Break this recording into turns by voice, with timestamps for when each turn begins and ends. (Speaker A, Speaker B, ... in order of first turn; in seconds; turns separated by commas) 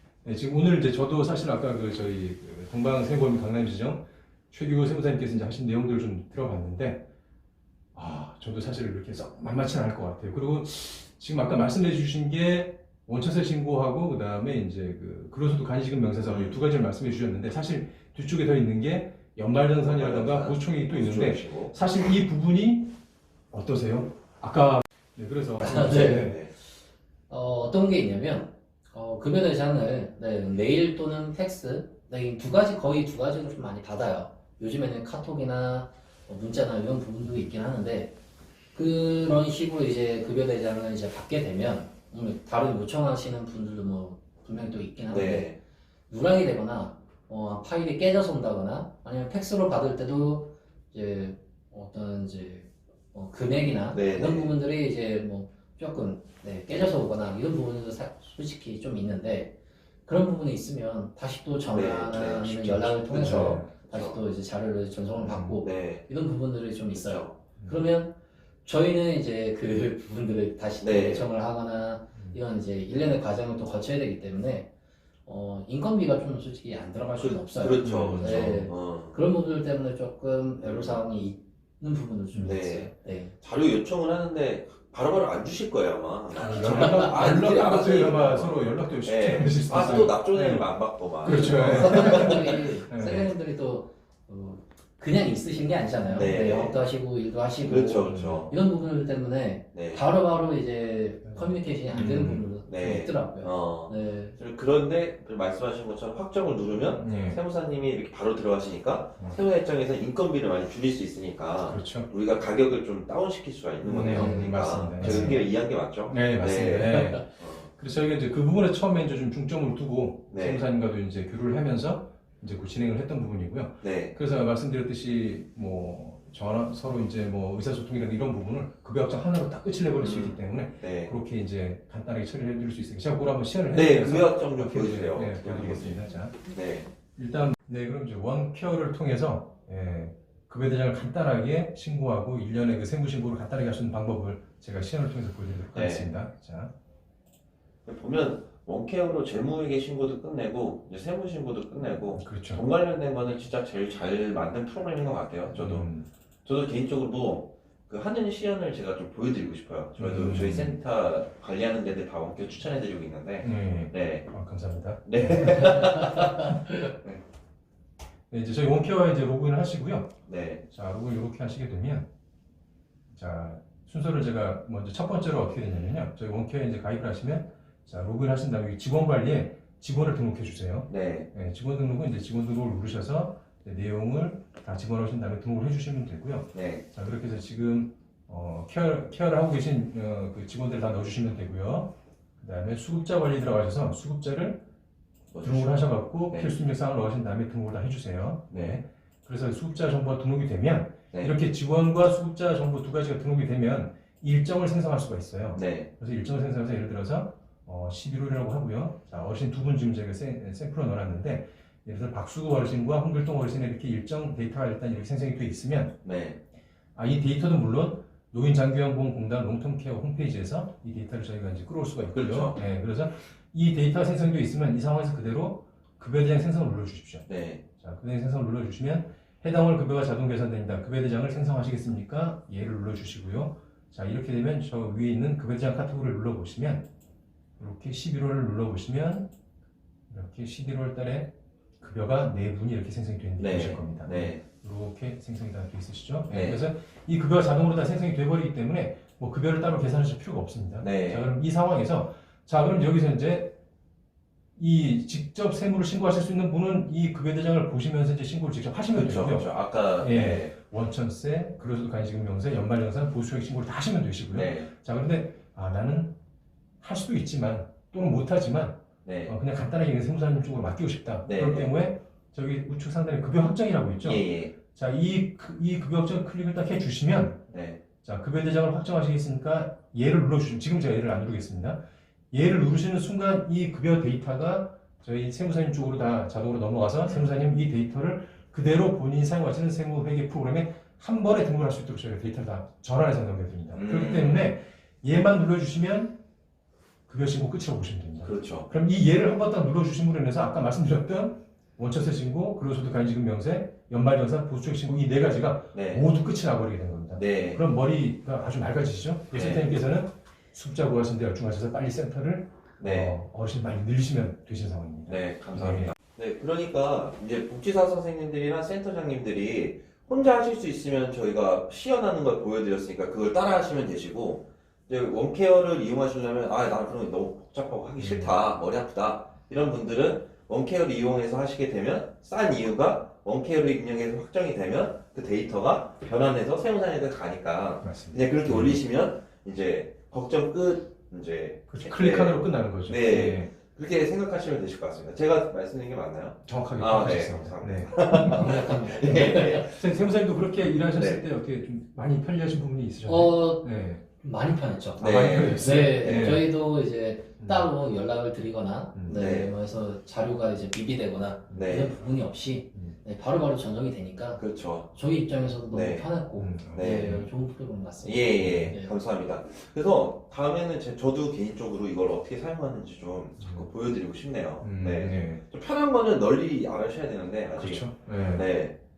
Speaker A: 0.2-7.1, Speaker A: 8.0-22.9, Speaker B: 16.2-16.6, Speaker B: 19.8-21.8, Speaker A: 23.5-26.4, Speaker C: 25.6-26.4, Speaker B: 26.1-26.5, Speaker C: 27.3-38.1, Speaker C: 38.7-45.5, Speaker B: 45.1-45.6, Speaker C: 46.1-74.7, Speaker B: 53.9-54.5, Speaker B: 61.7-64.2, Speaker A: 62.5-63.7, Speaker A: 65.2-65.6, Speaker B: 65.6-66.1, Speaker B: 66.9-67.4, Speaker B: 70.8-71.3, Speaker C: 75.2-83.3, Speaker B: 77.2-79.2, Speaker A: 77.8-78.7, Speaker B: 80.6-81.0, Speaker A: 82.3-82.6, Speaker B: 82.5-92.6, Speaker A: 86.3-93.3, Speaker C: 86.4-87.2, Speaker C: 91.3-104.4, Speaker B: 96.1-96.8, Speaker B: 97.6-98.5, Speaker A: 98.1-98.4, Speaker B: 99.7-100.0, Speaker A: 101.2-102.5, Speaker B: 102.7-117.7, Speaker A: 107.0-107.4, Speaker A: 111.6-112.1, Speaker A: 113.8-115.4, Speaker C: 114.0-115.3, Speaker A: 116.1-136.4, Speaker B: 120.3-120.6, Speaker B: 123.8-124.2, Speaker B: 130.0-131.2, Speaker B: 133.7-136.9, Speaker A: 137.2-146.7, Speaker B: 145.7-146.1, Speaker B: 147.9-155.9, Speaker A: 152.1-152.6, Speaker A: 155.5-156.1, Speaker B: 156.4-164.3, Speaker A: 160.0-160.8, Speaker A: 163.4-166.5, Speaker B: 165.1-167.2, Speaker A: 168.3-170.2, Speaker B: 170.3-170.6, Speaker A: 170.7-172.1, Speaker A: 173.1-194.6, Speaker B: 180.9-181.3, Speaker B: 186.5-186.8, Speaker B: 195.3-195.8, Speaker A: 195.4-215.9, Speaker B: 196.3-196.6, Speaker B: 198.5-198.8, Speaker B: 205.6-205.9, Speaker B: 216.0-216.4, Speaker A: 216.9-227.2, Speaker B: 222.1-222.6, Speaker B: 227.3-227.6, Speaker A: 227.8-236.9, Speaker A: 237.6-239.3, Speaker A: 240.1-253.6, Speaker B: 243.4-244.4, Speaker B: 246.3-246.6, Speaker B: 250.8-251.3, Speaker A: 254.6-266.2, Speaker B: 258.9-260.5, Speaker B: 264.3-264.7, Speaker A: 266.8-277.5, Speaker B: 269.1-269.3, Speaker B: 271.2-271.7, Speaker B: 274.0-274.5, Speaker B: 277.5-277.8, Speaker A: 278.0-281.8, Speaker A: 282.3-296.2, Speaker B: 293.7-294.5, Speaker A: 297.1-315.9, Speaker B: 298.2-298.7, Speaker B: 305.7-306.1, Speaker B: 307.1-307.6, Speaker B: 309.3-309.8, Speaker B: 312.8-313.2, Speaker B: 315.1-349.8, Speaker A: 328.0-328.4, Speaker A: 337.8-338.8, Speaker A: 341.7-343.5, Speaker A: 346.5-354.0, Speaker C: 348.1-349.7, Speaker B: 350.9-351.2, Speaker C: 353.1-353.7, Speaker C: 354.2-364.4, Speaker B: 355.0-356.4, Speaker A: 355.0-356.5, Speaker A: 357.4-357.7, Speaker A: 358.9-359.2, Speaker B: 359.1-359.5, Speaker A: 361.5-361.8, Speaker B: 361.5-361.9, Speaker B: 364.4-364.9, Speaker C: 364.9-368.9, Speaker B: 365.7-366.1, Speaker A: 366.4-367.3, Speaker B: 366.7-367.2, Speaker B: 368.0-378.8, Speaker A: 368.4-368.7, Speaker A: 373.4-373.7, Speaker A: 374.6-375.4, Speaker A: 377.6-378.4